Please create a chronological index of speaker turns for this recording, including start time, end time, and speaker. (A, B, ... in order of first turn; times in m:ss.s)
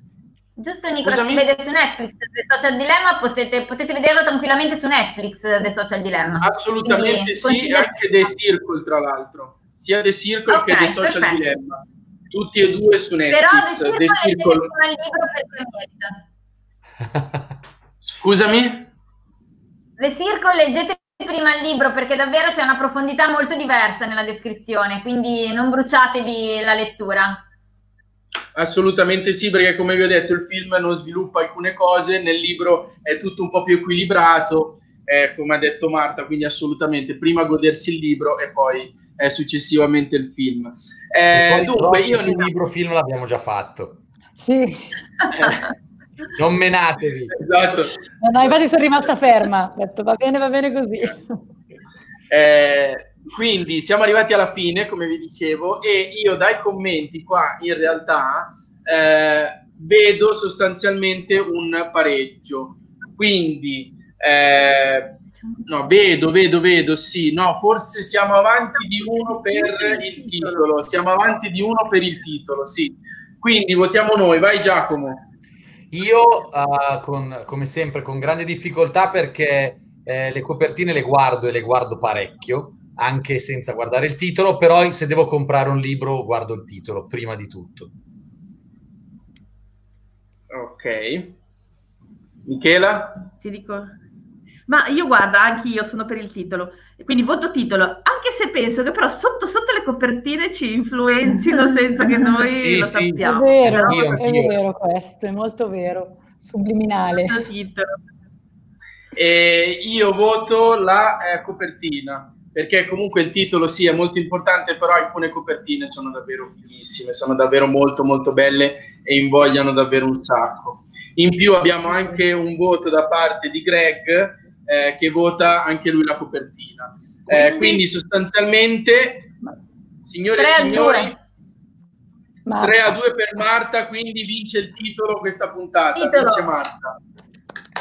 0:00.6-0:08.0 A
0:01.0-0:01.5 B
0:06.4-0:14.7 B
0:10.5-0:11.4 A
0:13.3-0:16.2 A
0:18.0-0:18.9 B
0:20.0-0:27.4 A
0:28.6-0:42.5 B
0:41.3-0:44.0 C
0:44.4-0:44.9 D
0:45.3-0:45.6 B
0:46.4-0:47.4 C
0:47.4-0:48.0 B
0:48.2-0:51.3 D
0:52.3-1:15.3 B
1:09.0-1:10.6 E
1:15.9-1:27.9 C
1:30.5-1:31.4 B
1:32.5-1:33.3 B
1:33.4-1:34.0 E
1:34.7-1:44.3 E
1:42.0-1:42.3 D
1:42.6-1:44.6 C
1:43.2-1:47.4 D
1:47.2-1:47.9 E
1:49.2-2:09.3 B
2:10.0-2:11.2 B
2:10.4-2:11.1 A
2:12.5-2:13.0 D
2:12.6-2:17.0 B
2:16.0-2:16.5 A